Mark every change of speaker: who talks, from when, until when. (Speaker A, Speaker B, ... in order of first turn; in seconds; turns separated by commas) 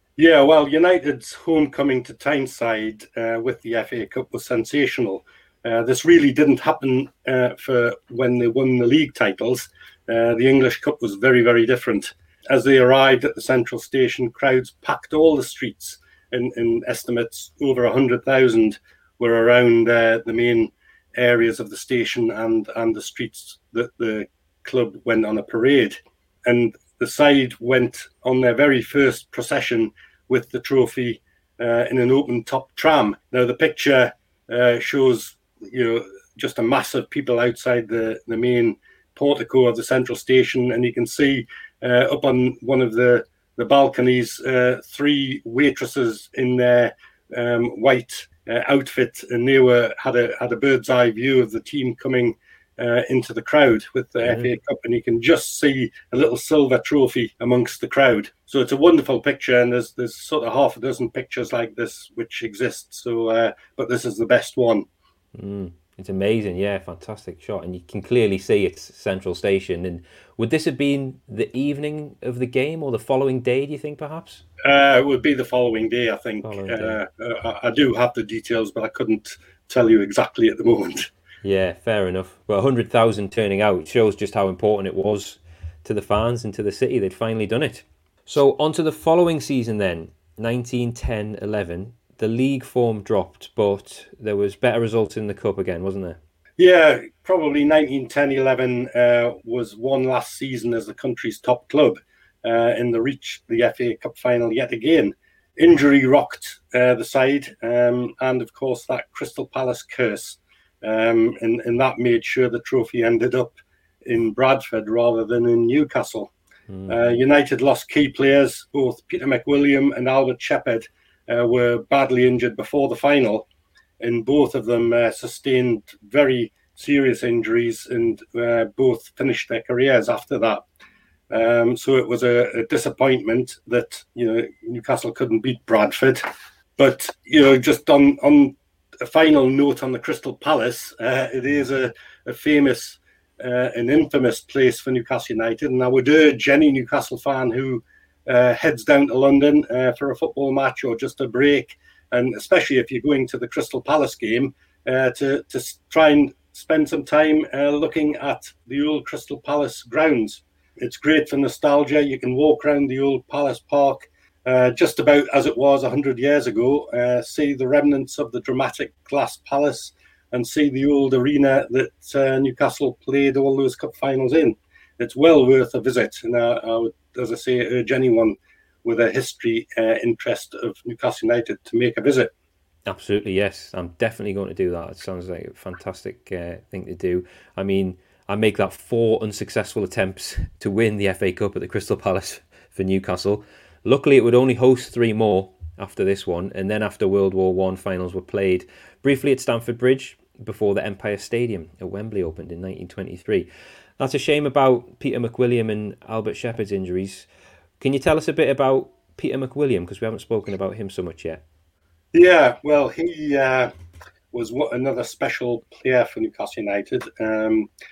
Speaker A: 0.2-64.9, Speaker B: 65.3-74.4, Speaker A: 74.6-81.1, Speaker B: 76.4-77.0, Speaker B: 81.4-96.2, Speaker A: 96.6-116.3, Speaker B: 116.7-117.0, Speaker A: 116.9-123.5, Speaker A: 124.0-130.7, Speaker A: 131.3-136.2, Speaker A: 136.8-182.3, Speaker B: 182.9-203.5, Speaker B: 204.0-207.3, Speaker B: 207.8-211.4, Speaker A: 212.1-213.7, Speaker A: 214.3-217.7